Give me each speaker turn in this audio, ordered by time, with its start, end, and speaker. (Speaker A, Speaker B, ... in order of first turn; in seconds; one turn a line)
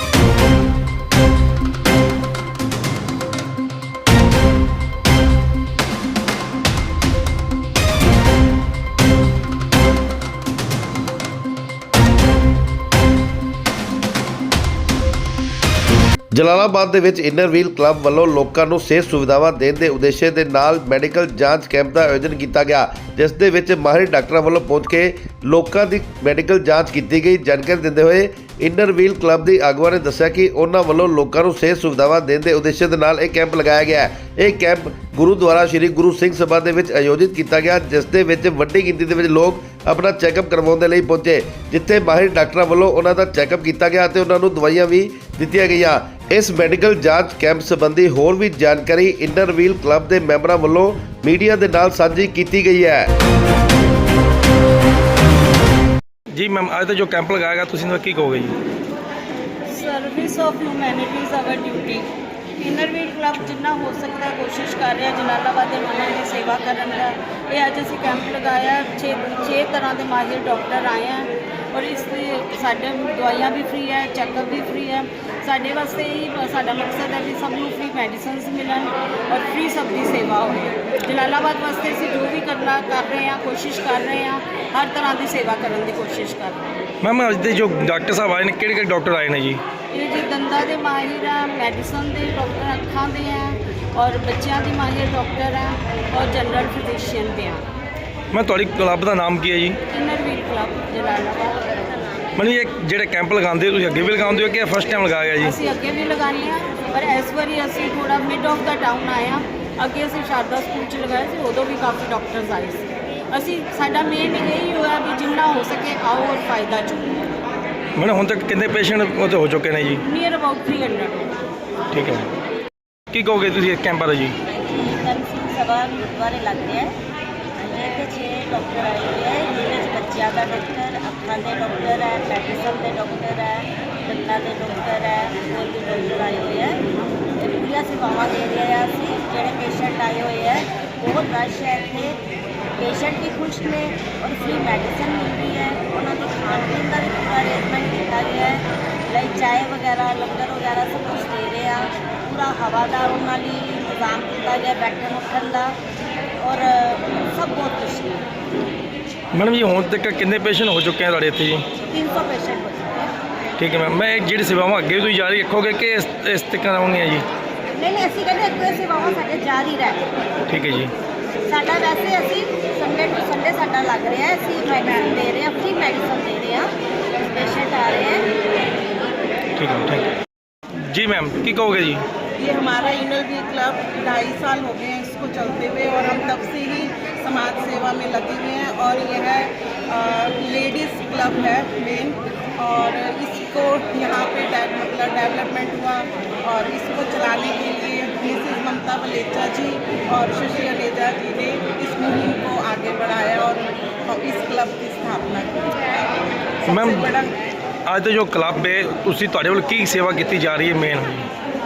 Speaker A: 16.3-53.1
Speaker B: 56.3-58.6
Speaker C: 59.7-86.7
Speaker B: 87.0-89.6
Speaker C: 89.9-97.7
Speaker B: 98.3-99.8
Speaker C: 99.9-101.9
Speaker B: 102.3-105.5
Speaker C: 105.4-117.3
Speaker B: 118.0-120.0
Speaker C: 120.0-121.3
Speaker B: 121.9-122.3
Speaker B: 123.1-124.3
Speaker D: 124.5-126.9
Speaker D: 127.6-136.8
Speaker D: 137.4-142.2
Speaker D: 142.8-155.8
Speaker D: 156.4-158.3
Speaker B: 159.3-161.7
Speaker D: 161.9-163.1
Speaker B: 163.6-167.3
Speaker D: 167.7-170.1
Speaker B: 170.5-170.9
Speaker D: 171.5-176.8
Speaker D: 177.3-178.3
Speaker B: 179.6-180.1
Speaker B: 180.8-182.0
Speaker E: 182.4-207.3
Speaker B: 206.7-207.1
Speaker B: 207.9-211.3